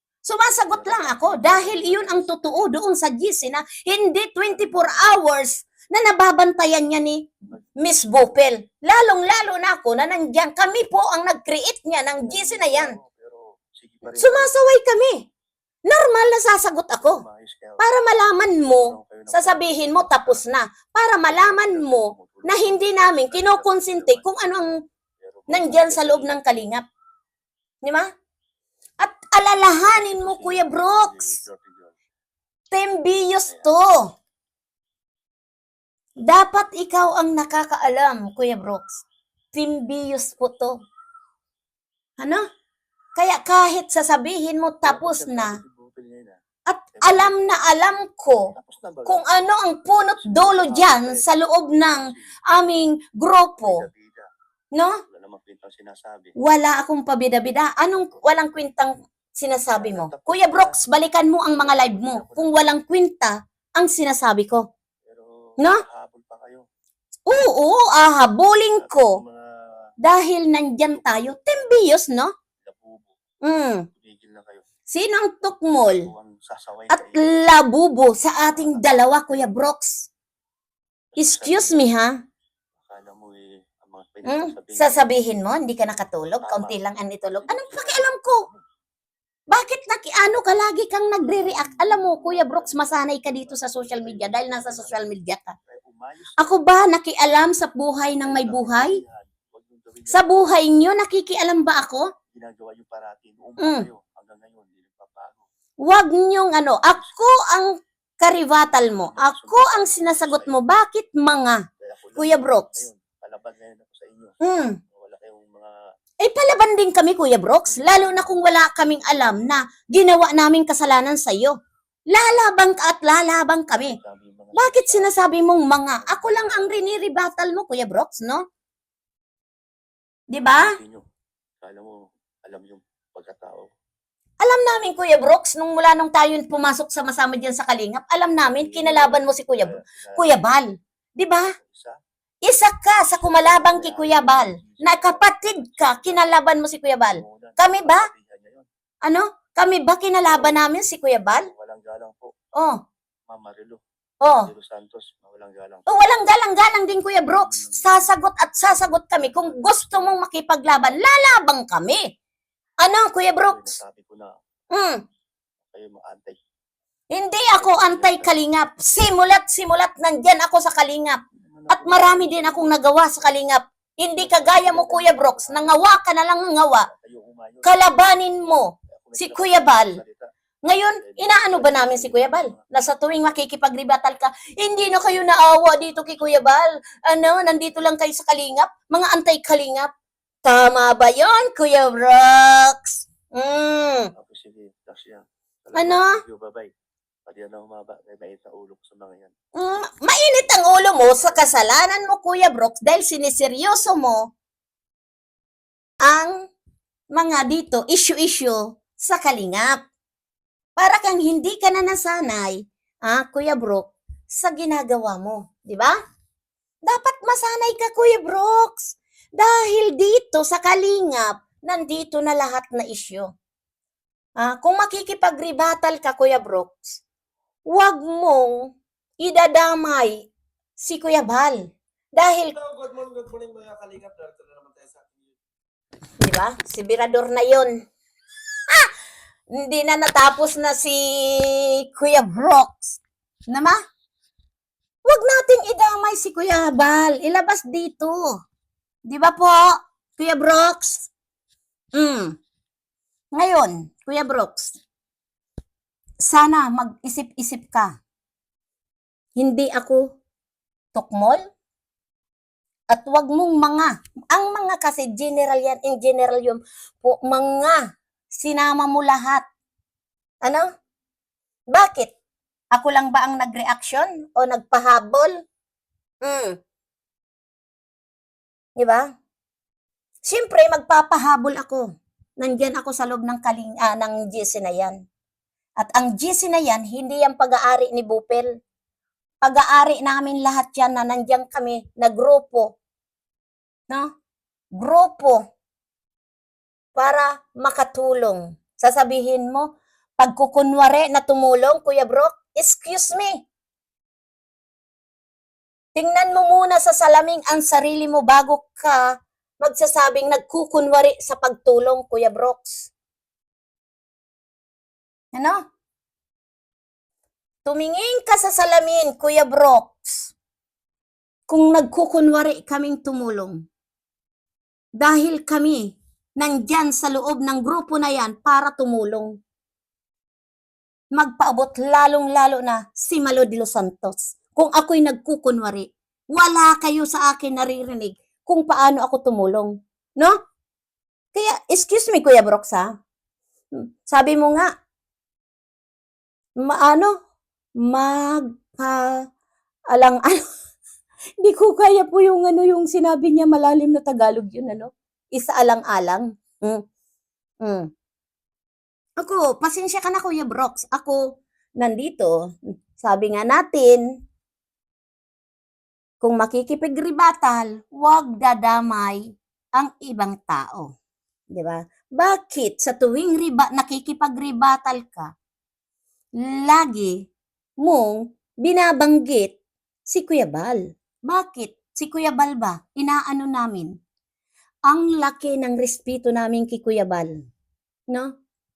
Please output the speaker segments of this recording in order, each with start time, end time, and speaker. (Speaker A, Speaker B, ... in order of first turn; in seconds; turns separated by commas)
Speaker A: 0.2-13.0, Speaker B: 0.7-2.7, Speaker B: 4.6-5.1, Speaker B: 12.2-14.6, Speaker A: 14.1-15.3, Speaker A: 15.9-17.2, Speaker B: 17.0-17.8, Speaker A: 17.8-24.8, Speaker B: 18.6-20.4, Speaker B: 21.3-24.4, Speaker B: 25.2-26.6, Speaker A: 25.5-26.9, Speaker A: 27.8-28.1, Speaker A: 29.0-31.4, Speaker B: 29.8-31.9, Speaker A: 32.7-34.1, Speaker B: 33.5-33.7, Speaker A: 36.2-40.8, Speaker A: 42.2-42.5, Speaker A: 43.2-45.6, Speaker B: 44.8-46.4, Speaker A: 46.7-48.5, Speaker B: 47.0-47.4, Speaker B: 48.5-49.4, Speaker A: 49.1-53.9, Speaker B: 50.0-52.3, Speaker B: 53.6-54.3, Speaker A: 54.7-55.0, Speaker B: 55.1-56.4, Speaker A: 56.4-64.7, Speaker B: 59.7-60.8, Speaker B: 61.5-62.8, Speaker B: 65.0-66.7, Speaker A: 65.6-65.8, Speaker A: 67.3-69.2, Speaker B: 68.7-69.8, Speaker A: 70.0-72.3, Speaker B: 70.9-71.3, Speaker B: 72.6-73.1, Speaker A: 73.4-73.9, Speaker B: 73.9-74.7, Speaker A: 74.9-76.1, Speaker B: 75.9-77.4, Speaker A: 76.9-80.1, Speaker B: 78.5-79.5, Speaker B: 81.2-81.9, Speaker A: 81.2-82.2, Speaker B: 82.8-85.1, Speaker A: 84.2-88.4, Speaker B: 86.4-88.6, Speaker A: 89.5-95.6, Speaker B: 91.2-95.1, Speaker B: 95.7-96.7, Speaker A: 96.4-99.0, Speaker B: 98.2-100.4, Speaker A: 100.1-102.1, Speaker B: 102.3-105.4, Speaker A: 103.6-103.9, Speaker A: 105.8-112.9, Speaker B: 107.0-107.2, Speaker B: 108.7-110.6, Speaker B: 111.8-115.7, Speaker A: 114.4-114.8, Speaker A: 116.2-121.6, Speaker B: 117.7-119.4, Speaker A: 122.1-124.0, Speaker B: 123.7-125.1, Speaker A: 124.5-128.5, Speaker B: 125.9-126.8, Speaker A: 130.3-130.8, Speaker B: 130.3-131.1, Speaker B: 131.6-133.7, Speaker A: 134.4-141.6, Speaker B: 138.4-140.4, Speaker B: 141.6-142.0, Speaker A: 142.4-148.1, Speaker B: 143.2-146.3, Speaker B: 147.1-148.7, Speaker A: 149.0-151.5, Speaker B: 150.2-150.7, Speaker B: 151.5-152.3, Speaker A: 152.5-152.8, Speaker B: 153.3-153.8, Speaker A: 154.2-154.5, Speaker B: 154.4-156.0, Speaker A: 155.9-162.1, Speaker B: 157.3-161.1, Speaker A: 162.8-163.8, Speaker B: 163.4-164.3, Speaker A: 164.7-165.0, Speaker B: 165.7-166.4, Speaker A: 167.1-176.9, Speaker B: 167.5-168.4, Speaker B: 171.4-173.4, Speaker B: 174.2-175.8, Speaker B: 176.7-177.9, Speaker A: 177.6-180.0, Speaker B: 178.9-180.3, Speaker A: 180.6-189.9, Speaker B: 181.0-182.7, Speaker A: 190.4-194.1, Speaker B: 194.2-196.7, Speaker A: 195.7-196.2, Speaker B: 197.3-199.3, Speaker A: 199.6-204.3, Speaker B: 201.2-201.5, Speaker A: 206.0-206.5, Speaker A: 207.1-209.8, Speaker A: 210.8-216.0, Speaker A: 216.8-223.3, Speaker A: 224.4-227.0, Speaker A: 227.7-232.6, Speaker C: 232.5-235.4, Speaker A: 236.2-237.8, Speaker A: 239.5-243.8, Speaker A: 245.1-248.4, Speaker A: 249.1-251.1, Speaker A: 251.9-252.4, Speaker A: 253.3-254.8, Speaker A: 256.2-257.9, Speaker A: 259.4-260.1, Speaker A: 260.9-261.4, Speaker A: 262.9-269.5, Speaker A: 270.4-270.7, Speaker A: 271.7-272.1, Speaker A: 272.7-275.3, Speaker A: 276.2-276.6, Speaker A: 278.8-279.1, Speaker A: 280.2-281.9, Speaker A: 282.4-285.0, Speaker A: 285.8-288.5, Speaker A: 289.4-292.8, Speaker A: 294.8-295.4, Speaker A: 296.9-303.4, Speaker A: 305.9-312.9, Speaker A: 315.3-315.7, Speaker A: 317.6-320.3, Speaker A: 321.5-323.6, Speaker A: 325.0-329.4, Speaker A: 331.1-340.4, Speaker A: 341.3-342.9, Speaker A: 343.8-344.7, Speaker A: 346.6-347.2, Speaker A: 347.8-349.2, Speaker A: 349.9-350.4, Speaker A: 351.4-356.8, Speaker A: 357.6-357.9, Speaker A: 359.2-361.2, Speaker A: 361.8-362.4, Speaker A: 362.9-364.0, Speaker A: 366.2-370.9, Speaker A: 371.5-375.3, Speaker A: 376.4-377.2, Speaker A: 377.8-383.9, Speaker A: 384.9-387.5